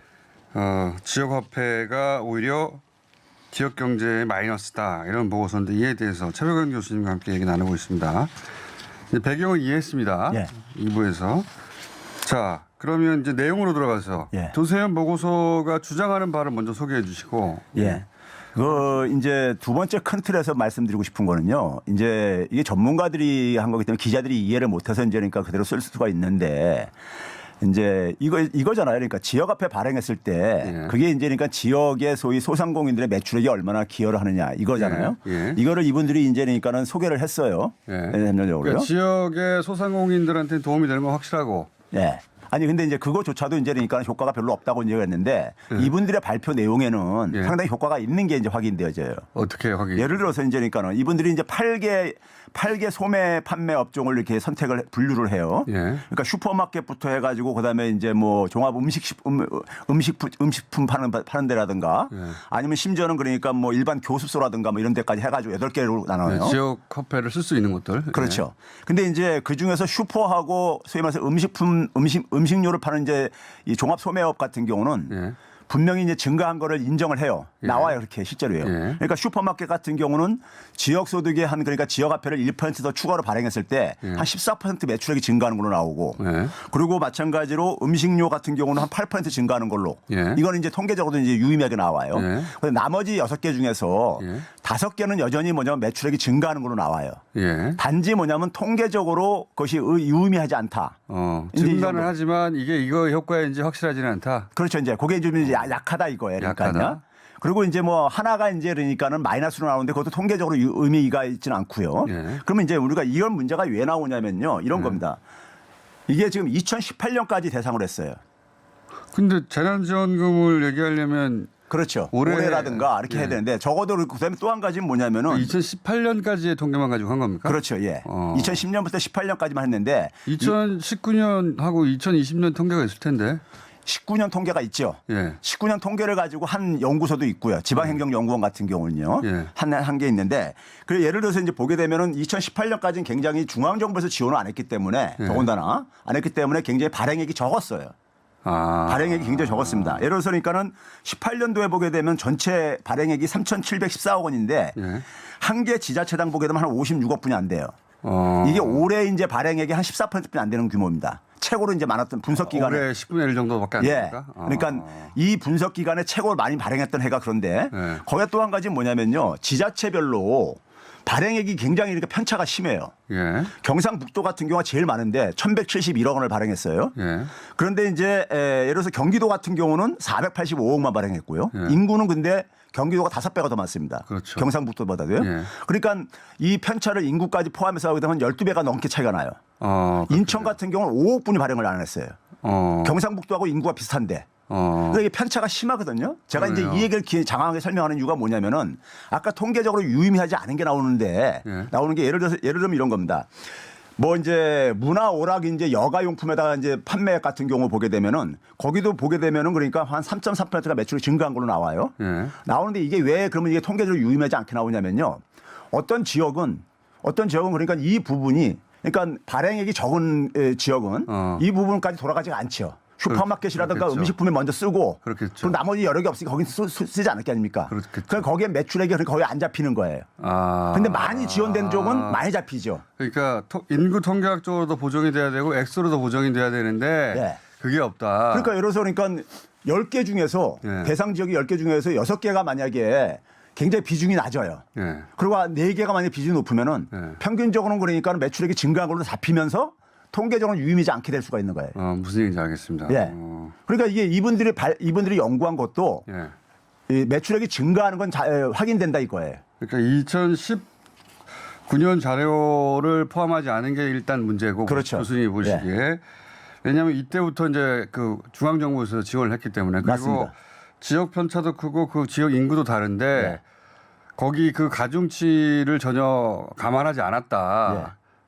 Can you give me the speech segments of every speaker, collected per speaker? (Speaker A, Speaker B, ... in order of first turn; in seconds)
Speaker A: 0.5-2.8, 3.5-8.3, 9.1-11.5, 12.2-18.0, 30.6-30.9, 34.8-35.6, 37.9-41.7, 49.4-50.2, 55.7-56.0, 66.2-68.4, 75.1-75.4, 77.6-77.9, 78.6-79.0, 86.2-86.6, 90.1-90.4, 92.1-92.5, 94.2-94.5, 97.3-97.8, 101.1-104.5, 106.4-107.0, 112.1-112.4, 114.7-115.0, 119.1-121.5, 122.1-123.4, 125.3-128.6, 130.3-133.4, 135.1-135.4, 139.2-139.5, 145.2-145.5, 148.4-150.1, 154.8-155.1, 158.0-158.9, 162.4-165.1, 167.7-168.0, 173.1-173.5, 177.0-177.3, 181.5-181.8, 184.1-184.5, 185.2-185.5, 189.6-190.6, 192.4-193.0, 194.5-195.0, 196.3-196.9, 201.4-201.7, 212.0-212.3, 221.1-221.4, 223.1-224.1, 225.0-225.6, 227.7-228.3, 230.2-232.2, 233.0-238.6, 240.6-240.9, 244.8-245.1, 246.9-247.2, 251.8-253.5, 256.1-256.3, 259.6-260.7, 261.7-266.0, 266.6-273.4, 274.2-277.9
Speaker B: 17.8-18.0, 18.6-26.9, 27.6-38.9, 41.9-49.3, 50.0-66.6, 68.1-97.2, 97.8-101.0, 101.5-102.1, 104.5-115.2, 116.1-118.2, 121.7-125.5, 127.5-130.6, 133.9-147.9, 148.9-154.8, 155.4-157.7, 158.4-162.9, 163.8-172.9, 173.6-176.9, 177.5-189.4, 190.1-192.2, 192.8-194.3, 194.9-203.3, 204.0-230.1, 230.7-232.8, 237.1-237.4, 238.3-244.6, 245.2-251.8, 252.9-253.2, 253.7-256.1, 256.9-259.4, 264.7-265.7, 269.8-270.3